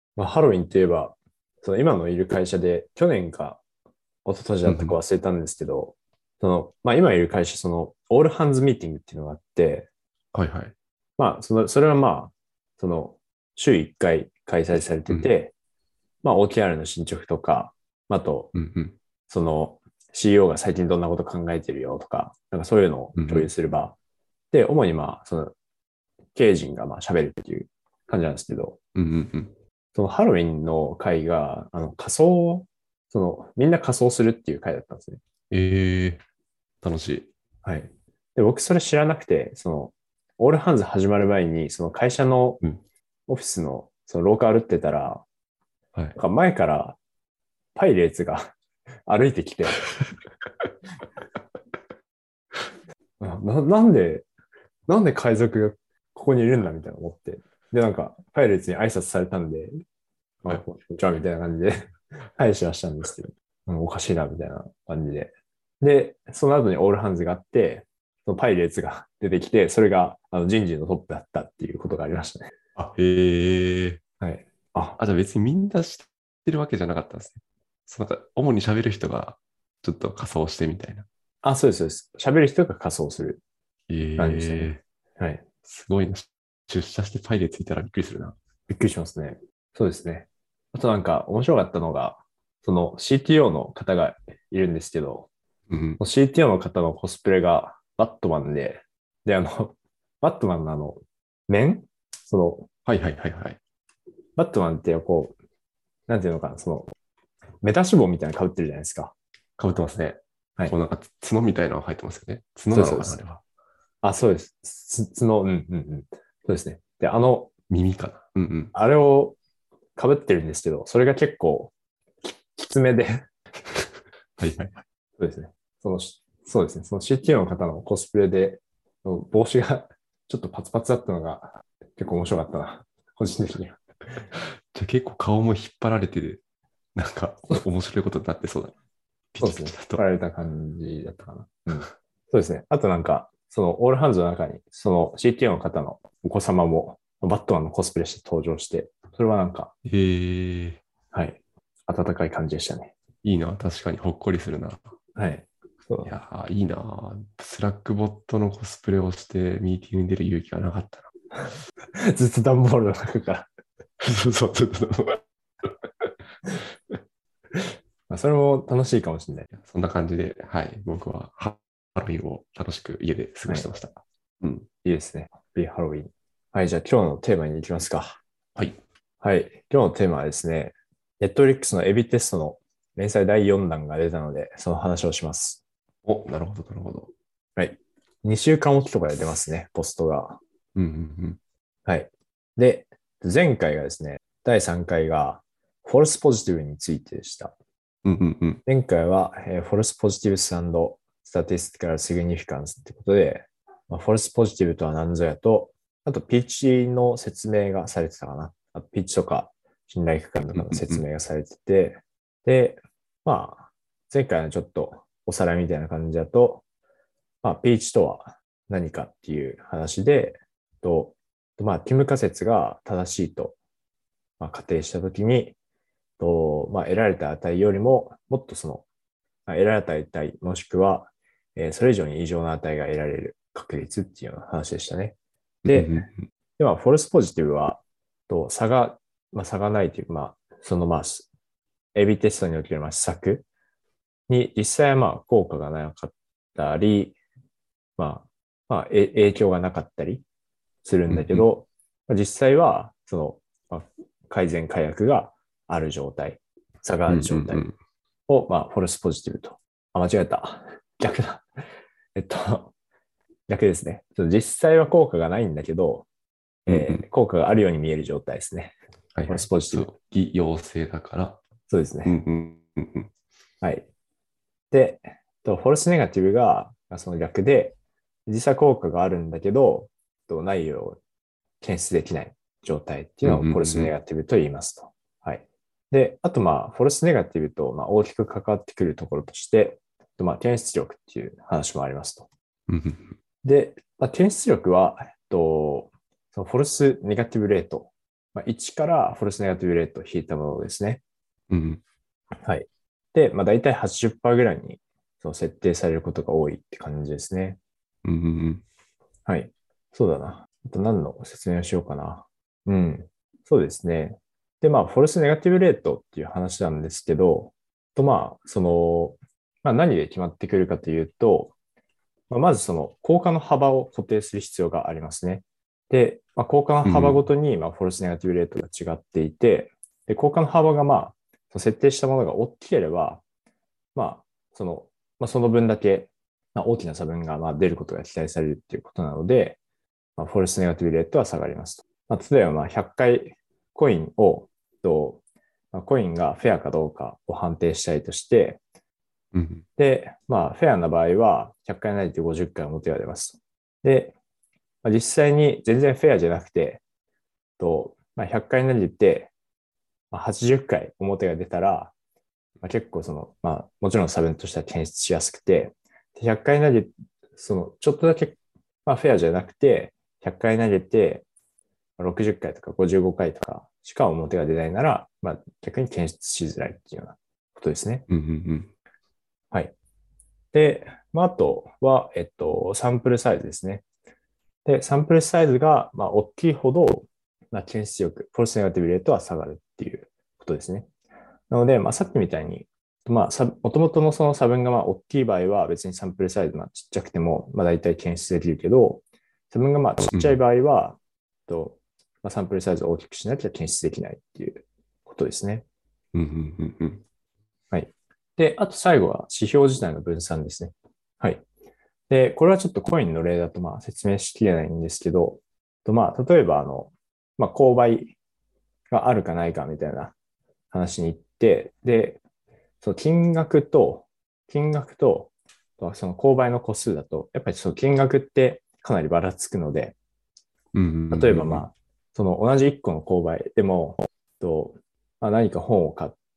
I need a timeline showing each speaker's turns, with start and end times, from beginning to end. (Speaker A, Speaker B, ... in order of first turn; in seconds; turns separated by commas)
Speaker A: 0.2-3.6, Speaker A: 4.2-9.9, Speaker B: 4.6-5.0, Speaker B: 10.3-10.7, Speaker A: 11.2-15.5, Speaker A: 16.2-18.5, Speaker B: 18.5-19.0, Speaker A: 19.3-23.9, Speaker B: 23.2-23.5, Speaker A: 24.5-25.5, Speaker A: 26.3-28.8, Speaker B: 28.9-29.5, Speaker A: 29.9-35.2, Speaker B: 35.5-36.2, Speaker B: 36.8-37.3, Speaker A: 37.6-42.6, Speaker A: 43.3-45.2, Speaker A: 46.1-47.0, Speaker A: 47.7-48.5, Speaker A: 49.0-49.8, Speaker A: 53.2-54.2, Speaker A: 54.9-59.8, Speaker A: 60.4-72.5, Speaker B: 72.8-74.0, Speaker A: 74.2-75.0, Speaker B: 75.0-81.0, Speaker A: 81.4-83.4, Speaker B: 83.9-84.8, Speaker A: 84.2-85.4, Speaker B: 85.6-88.3, Speaker A: 88.7-95.3, Speaker B: 95.7-96.0, Speaker A: 96.0-102.7, Speaker B: 102.8-103.6, Speaker A: 104.4-105.3, Speaker A: 106.1-106.9, Speaker A: 107.6-109.1, Speaker B: 109.6-113.4, Speaker A: 112.7-113.2, Speaker A: 114.0-117.5, Speaker B: 117.7-118.7, Speaker A: 118.7-119.4, Speaker A: 120.0-121.7, Speaker A: 122.2-123.2, Speaker B: 123.7-124.7, Speaker A: 125.2-134.2, Speaker B: 134.3-136.4, Speaker B: 136.9-138.7, Speaker B: 139.3-140.0, Speaker A: 139.4-149.7, Speaker B: 149.8-150.8, Speaker A: 151.1-152.9, Speaker B: 153.2-154.9, Speaker A: 155.2-156.1, Speaker B: 156.0-161.1, Speaker A: 161.9-163.5, Speaker B: 164.0-165.8, Speaker A: 168.1-169.5, Speaker B: 169.5-174.7, Speaker A: 174.8-178.2, Speaker A: 179.2-185.6, Speaker B: 186.0-187.1, Speaker A: 187.6-190.4, Speaker B: 190.7-191.4, Speaker A: 191.8-197.5, Speaker B: 198.0-198.6, Speaker A: 198.7-216.6, Speaker B: 210.5-211.0, Speaker A: 217.4-223.6, Speaker A: 224.4-225.5, Speaker A: 226.2-228.8, Speaker A: 229.5-235.1, Speaker B: 235.6-236.1, Speaker A: 235.7-236.1, Speaker A: 236.6-241.3, Speaker A: 241.9-243.4, Speaker A: 244.3-247.2, Speaker A: 248.0-250.2, Speaker A: 250.8-257.7, Speaker B: 251.1-251.4, Speaker B: 257.1-257.7, Speaker A: 258.3-261.4, Speaker A: 262.1-262.7, Speaker A: 263.5-266.1, Speaker A: 266.6-268.7, Speaker B: 266.7-267.0, Speaker B: 269.1-271.4, Speaker A: 269.2-269.9, Speaker A: 271.7-272.2, Speaker B: 272.0-273.1, Speaker A: 274.7-281.0, Speaker A: 281.6-292.3, Speaker B: 283.2-283.9, Speaker B: 292.7-293.2, Speaker A: 293.4-301.0, Speaker B: 301.5-301.8, Speaker A: 302.4-307.6, Speaker B: 308.0-308.6, Speaker A: 309.2-321.5, Speaker A: 322.3-333.2, Speaker B: 326.8-327.2, Speaker A: 333.9-339.6, Speaker A: 340.2-345.2, Speaker A: 345.7-348.6, Speaker B: 349.3-349.6, Speaker A: 349.8-354.1, Speaker A: 354.8-356.8, Speaker A: 357.6-359.3, Speaker A: 360.1-361.9, Speaker A: 362.6-371.2, Speaker A: 372.0-378.1, Speaker B: 378.1-378.7, Speaker A: 380.5-383.8, Speaker A: 384.6-390.9, Speaker A: 391.5-405.6, Speaker B: 406.1-407.0, Speaker A: 407.7-411.4, Speaker A: 412.1-418.1, Speaker A: 418.9-420.1, Speaker A: 420.7-422.2, Speaker A: 422.8-429.9, Speaker B: 430.7-431.7, Speaker A: 431.1-436.1